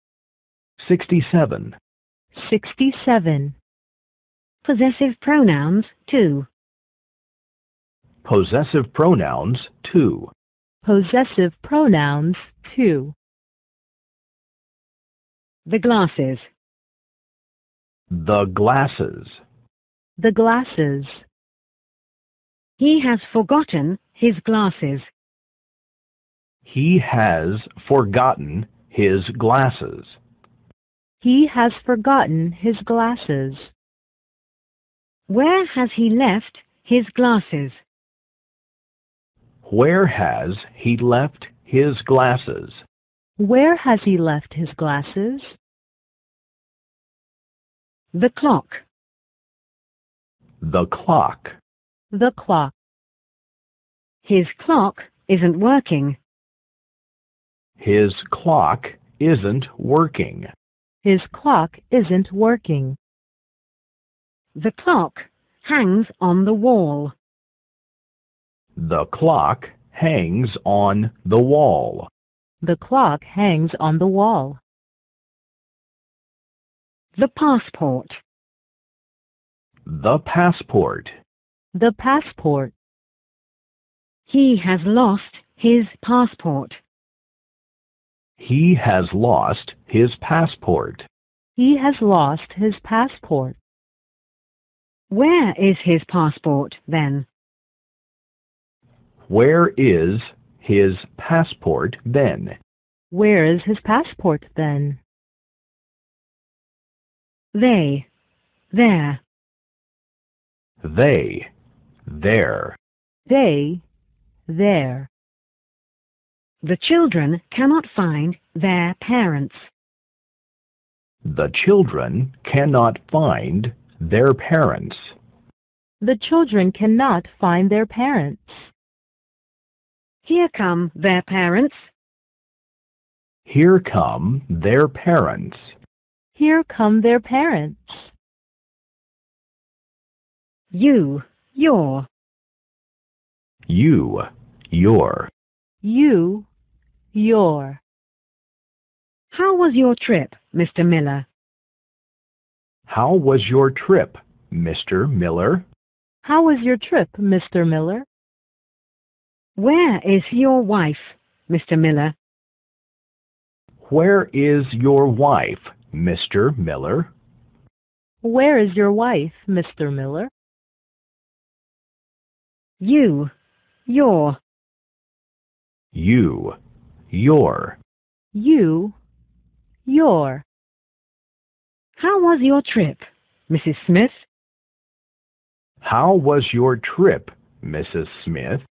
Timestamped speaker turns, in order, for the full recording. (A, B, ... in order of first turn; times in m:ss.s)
0:00.8-0:01.7 A
0:02.3-0:03.5 B
0:04.6-0:06.4 C
0:08.2-0:10.3 A
0:10.8-0:13.1 B
0:15.6-0:16.4 C
0:18.1-0:19.4 A
0:20.2-0:21.2 B
0:22.8-0:25.1 C
0:26.6-0:30.2 A
0:31.2-0:33.7 B
0:35.3-0:37.8 C
0:39.6-0:42.8 A
0:43.4-0:45.6 B
0:48.1-0:48.8 C
0:50.6-0:51.6 A
0:52.1-0:52.7 B
0:54.2-0:56.2 C
0:57.8-1:00.5 A
1:01.0-1:03.0 B
1:04.5-1:07.1 C
1:08.8-1:12.1 A
1:12.6-1:14.6 B
1:17.2-1:18.2 C
1:19.8-1:21.2 A
1:21.7-1:22.7 B
1:24.3-1:26.8 C
1:28.4-1:31.1 A
1:31.6-1:33.6 B
1:35.1-1:37.2 C
1:39.3-1:42.6 A
1:43.1-1:45.0 B
1:47.5-1:48.0 C
1:48.7-1:49.2 C
1:50.8-1:51.5 A
1:52.1-1:52.8 A
1:53.3-1:53.8 B
1:54.5-1:55.1 B
1:56.6-1:59.7 C
2:01.2-2:05.1 A
2:06.0-2:08.7 B
2:10.2-2:11.8 C
2:13.5-2:15.7 A
2:16.3-2:18.1 B
2:20.7-2:22.1 C
2:23.7-2:25.3 A
2:25.8-2:26.5 B
2:27.1-2:27.8 B
2:29.3-2:31.2 C
2:32.9-2:35.6 A
2:36.2-2:38.0 B
2:39.6-2:42.1 C
2:43.8-2:47.1 A
2:48.2-2:50.3 B
2:52.8-2:53.3 C
2:53.9-2:54.4 C
2:55.9-2:56.6 A
2:57.1-2:57.8 A
2:58.3-2:58.9 B
2:59.8-3:00.4 B
3:02.0-3:04.2 C
3:05.8-3:08.6 A